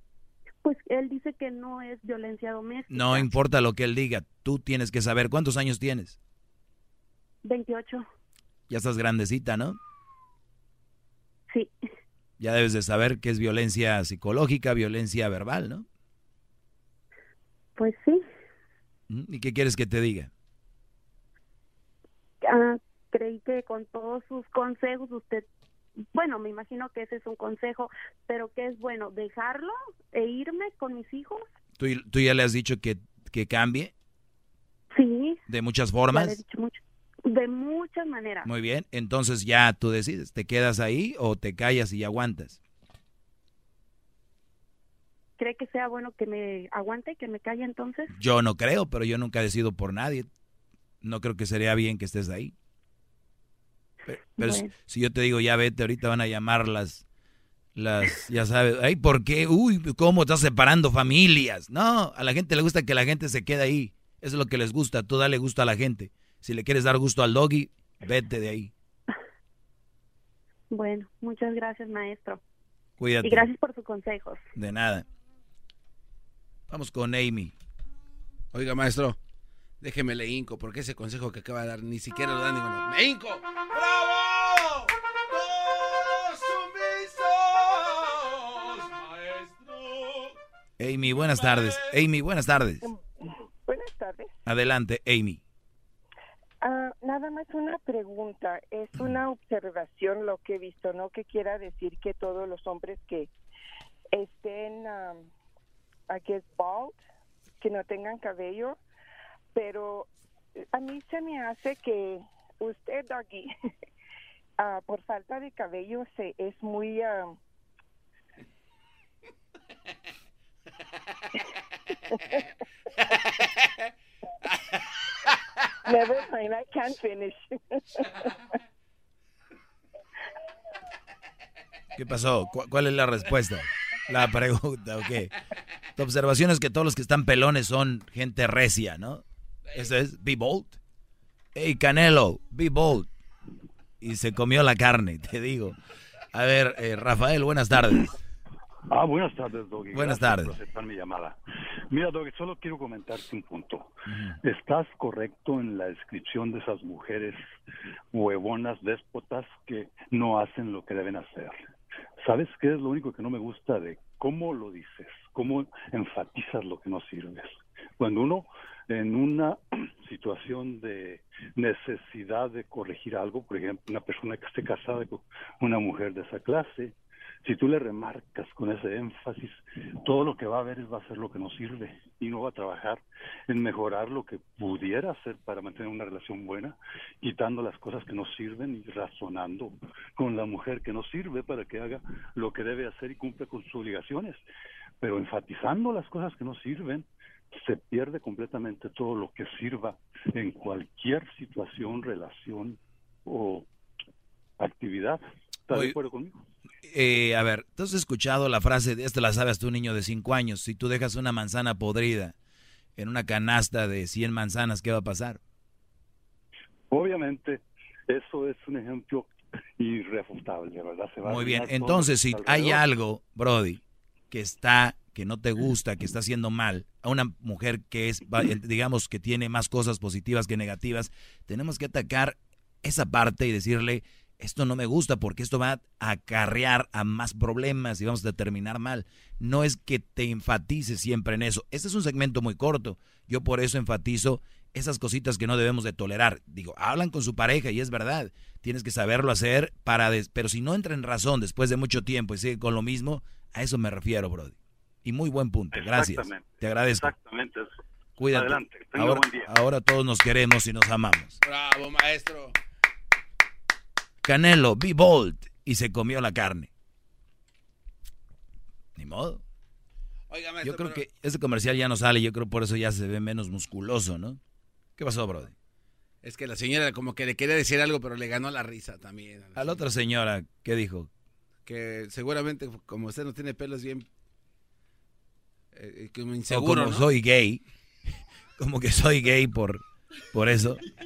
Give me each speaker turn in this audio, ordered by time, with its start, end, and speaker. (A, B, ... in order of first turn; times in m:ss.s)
0:00.6-0:03.3 A
0:02.9-0:06.2 B
0:07.4-0:08.0 A
0:08.7-0:09.8 B
0:12.4-0:15.8 B
0:17.8-0:18.2 A
0:19.1-0:20.3 B
0:22.4-0:25.4 A
0:26.1-0:31.4 A
0:31.8-0:33.9 B
0:34.9-0:35.4 A
0:35.5-0:36.4 B
0:36.1-0:38.5 A
0:38.4-0:42.6 B
0:45.4-0:48.1 A
0:48.1-0:50.3 B
0:51.0-0:52.5 B
0:54.0-0:57.0 B
0:54.4-0:54.7 A
0:57.8-1:08.7 B
1:10.7-1:12.4 A
1:13.0-1:13.5 B
1:13.2-1:14.4 A
1:14.5-1:15.0 B
1:16.7-1:17.5 B
1:18.5-1:19.2 C
1:19.8-1:30.3 C
1:30.8-1:32.9 B
1:31.2-1:32.0 C
1:33.6-1:34.4 D
1:34.4-1:35.4 B
1:36.6-1:43.3 D
1:44.1-1:45.3 D
1:46.1-1:47.0 D
1:47.6-1:48.8 D
1:49.5-1:53.5 D
1:54.6-1:57.4 D
2:05.8-2:08.3 D
2:12.0-2:15.3 B
2:16.0-2:20.8 B
2:21.5-2:23.1 B
2:24.0-2:25.8 B
2:26.3-2:28.2 B
2:28.9-2:31.4 E
2:29.9-2:30.5 B
2:31.9-2:37.4 E
2:34.1-2:34.3 B
2:38.1-2:41.6 E
2:42.2-3:14.4 E
3:15.0-3:23.7 E
3:24.6-3:26.3 E
3:26.8-3:32.3 B
3:33.0-3:35.4 B
3:36.9-3:42.8 E
3:41.2-4:17.1 B
4:15.7-4:17.7 E
4:18.2-4:21.4 B
4:18.2-4:19.5 E
4:21.4-4:22.5 C
4:24.2-4:26.7 B
4:29.0-4:29.4 B
4:30.3-4:31.0 C
4:30.6-4:34.4 B
4:35.0-4:35.5 B
4:36.2-4:39.8 C
4:39.6-4:41.1 B
4:41.6-4:44.1 C
4:45.7-4:47.1 C
4:46.5-4:47.6 B
4:48.6-4:50.8 B